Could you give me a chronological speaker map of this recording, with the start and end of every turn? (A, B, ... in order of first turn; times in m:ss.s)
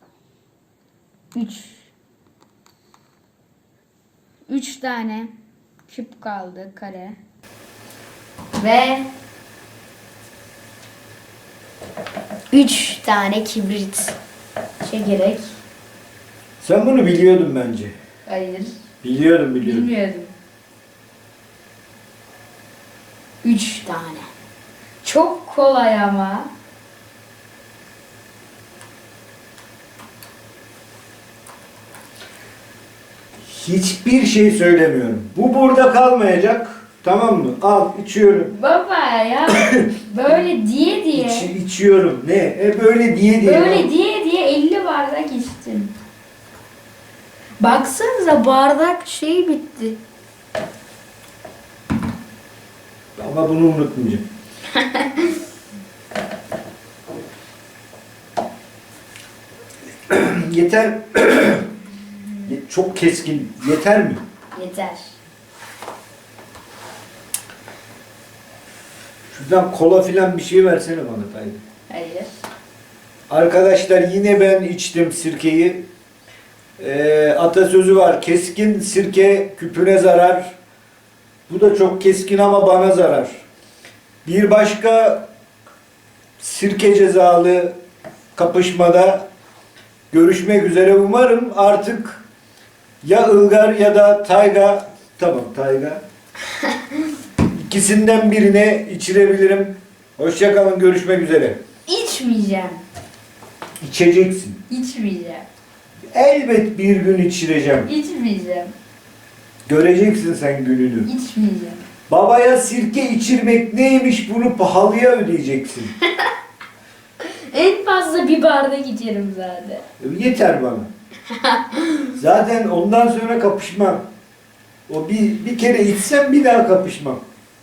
0:01.3-0:01.9 A
0:04.5-0:05.3 A
0:05.9-0:07.2 A
0:08.6-0:09.1 A
0:12.5-0:14.2 A
0:14.8-0:15.6 A
0:16.6-0:18.0 B
0:18.3-0:18.8 A
0:19.0-0:19.9 B
0:19.6-0:20.3 A
0:23.4-0:24.3 A
0:25.0-0:26.5 A
0:33.5-0:38.6 B
0:38.5-0:41.5 A
0:39.6-0:39.9 B
0:41.1-0:43.9 B
0:43.4-0:45.9 A
0:47.6-0:50.0 A
0:53.2-0:54.2 B
0:54.8-0:55.4 A
1:00.1-1:01.7 B
1:02.5-1:04.2 B
1:04.5-1:05.1 A
1:09.3-1:11.6 B
1:11.9-1:12.3 A
1:13.3-1:15.8 B
1:16.8-1:20.6 B
1:21.5-1:23.4 B
1:24.2-1:25.3 B
1:26.4-1:27.8 B
1:28.4-1:29.3 B
1:30.1-1:32.2 B
1:33.0-1:36.0 B
1:37.5-1:41.6 B
1:41.9-1:42.8 A
1:43.8-1:44.6 B
1:44.7-1:45.5 A
1:46.1-1:47.9 B
1:47.9-1:48.7 A
1:49.7-1:51.1 B
1:51.1-1:51.8 A
1:52.1-1:56.0 B
1:57.2-1:59.8 A
2:00.0-2:00.9 B
2:01.4-2:02.1 A
2:02.2-2:04.1 B
2:04.9-2:07.2 B